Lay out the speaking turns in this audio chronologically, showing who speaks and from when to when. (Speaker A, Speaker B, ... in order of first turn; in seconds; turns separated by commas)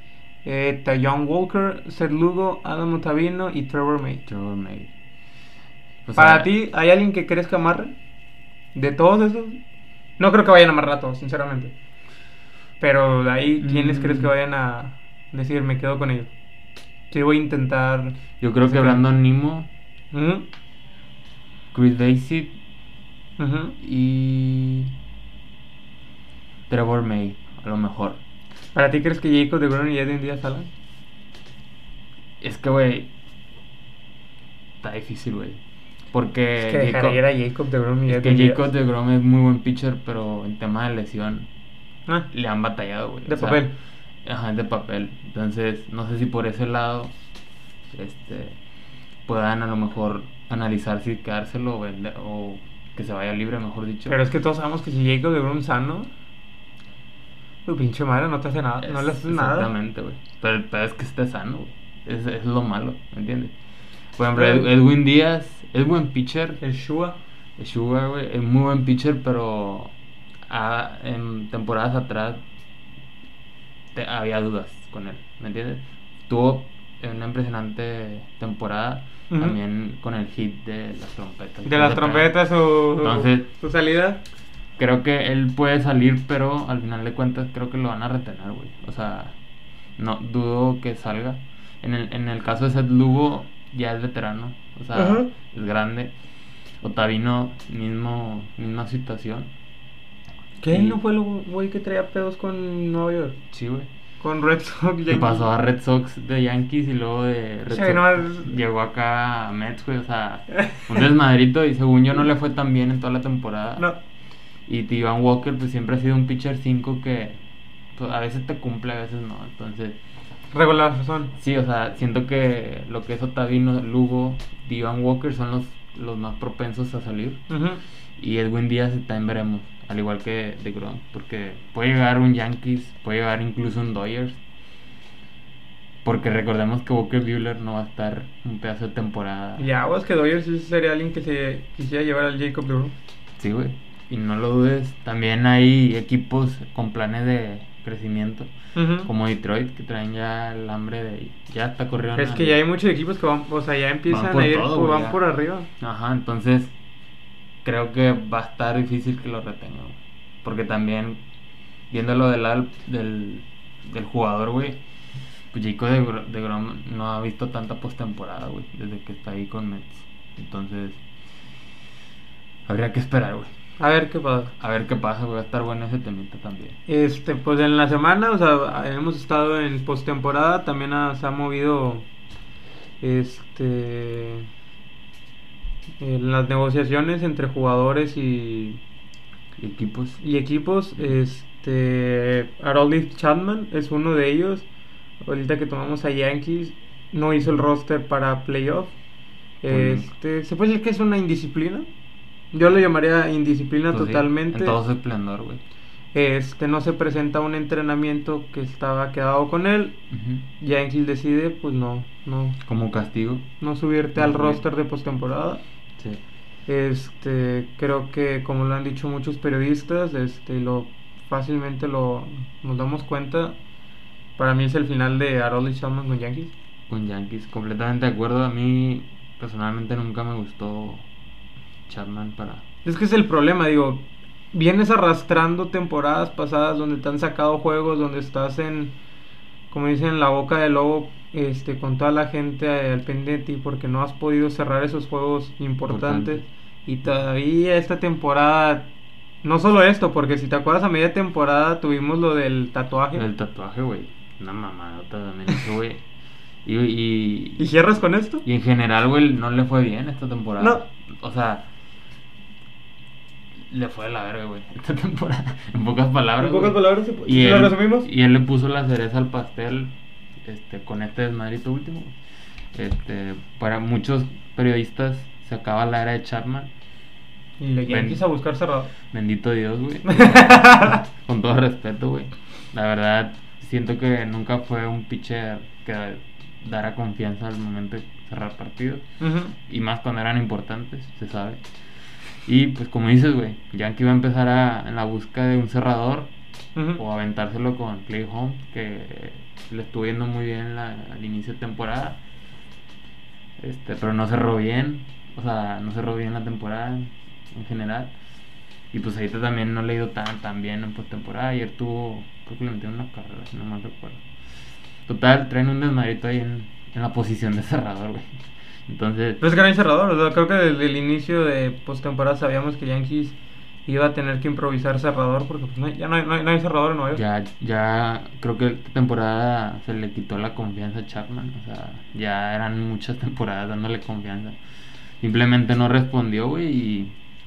Speaker A: 0.4-4.2, Speaker B: 4.2-4.9, Speaker B: 6.0-6.5, Speaker A: 6.2-7.9, Speaker A: 8.7-9.6, Speaker A: 10.2-11.7, Speaker A: 12.8-16.3, Speaker B: 13.6-14.3, Speaker A: 17.1-19.0, Speaker B: 18.4-19.7, Speaker A: 20.1-20.4, Speaker B: 21.7-22.6, Speaker A: 23.4-23.8, Speaker B: 23.8-24.9, Speaker B: 26.7-28.2, Speaker A: 28.7-30.7, Speaker B: 32.4-33.1, Speaker B: 34.8-35.6, Speaker B: 36.1-37.2, Speaker A: 36.6-38.6, Speaker B: 38.1-41.5, Speaker B: 42.3-43.7, Speaker A: 43.2-43.7, Speaker B: 44.2-47.1, Speaker B: 47.9-48.6, Speaker B: 49.2-54.2, Speaker A: 54.1-56.1, Speaker A: 57.6-59.7, Speaker B: 58.8-63.5, Speaker B: 64.2-66.6, Speaker A: 64.3-64.7, Speaker A: 66.6-67.2, Speaker B: 67.6-69.9, Speaker B: 70.5-72.4, Speaker B: 73.9-82.3, Speaker A: 79.3-79.6, Speaker A: 81.7-84.2, Speaker B: 83.0-83.5, Speaker B: 84.8-89.3, Speaker B: 90.0-96.1, Speaker A: 94.9-95.3, Speaker B: 96.8-99.5, Speaker A: 100.6-103.4, Speaker B: 100.7-101.0, Speaker B: 103.5-103.9, Speaker A: 104.2-105.5, Speaker B: 105.1-113.9, Speaker A: 107.7-108.5, Speaker B: 114.7-117.4, Speaker B: 118.0-120.0, Speaker A: 120.5-121.3, Speaker B: 121.3-127.4, Speaker A: 127.5-127.8, Speaker B: 128.2-134.4, Speaker B: 136.0-139.7, Speaker A: 139.6-142.9, Speaker B: 143.4-148.5, Speaker A: 148.7-149.1, Speaker B: 149.0-152.6, Speaker A: 152.1-155.7, Speaker B: 154.1-155.2, Speaker B: 155.8-156.7, Speaker B: 157.6-161.2, Speaker B: 161.9-164.8, Speaker B: 165.5-171.0, Speaker B: 172.7-173.5, Speaker A: 173.8-174.5, Speaker B: 174.6-176.8, Speaker A: 176.9-182.1, Speaker A: 183.0-184.5, Speaker A: 186.0-188.8, Speaker B: 189.6-190.2, Speaker A: 190.2-194.7, Speaker A: 195.2-198.9, Speaker A: 199.6-201.9, Speaker B: 199.7-200.1, Speaker A: 202.5-204.8, Speaker B: 203.9-205.6, Speaker A: 206.1-210.0, Speaker B: 210.1-210.4, Speaker A: 210.6-212.6, Speaker B: 212.6-213.5, Speaker A: 213.6-215.6, Speaker B: 214.1-214.6, Speaker A: 216.7-223.6, Speaker A: 224.4-226.5, Speaker B: 226.9-231.0, Speaker B: 231.9-232.6, Speaker A: 232.8-238.9, Speaker A: 239.7-248.9, Speaker B: 245.8-246.4, Speaker A: 249.4-253.2, Speaker B: 253.1-256.0, Speaker B: 256.6-257.7, Speaker A: 257.6-258.4, Speaker B: 258.4-261.7, Speaker B: 263.7-269.9, Speaker A: 266.4-268.1, Speaker B: 270.4-272.1, Speaker B: 272.7-276.7, Speaker A: 277.6-278.9, Speaker B: 277.9-278.2, Speaker B: 279.1-289.0, Speaker A: 280.1-281.0, Speaker A: 289.2-289.5, Speaker B: 289.6-291.6, Speaker B: 292.4-296.3, Speaker A: 296.8-297.0, Speaker B: 296.9-302.2, Speaker B: 303.6-308.1, Speaker B: 308.9-314.2, Speaker B: 315.1-318.3, Speaker B: 318.9-319.4, Speaker A: 319.4-327.2, Speaker B: 327.1-334.6, Speaker B: 335.2-337.1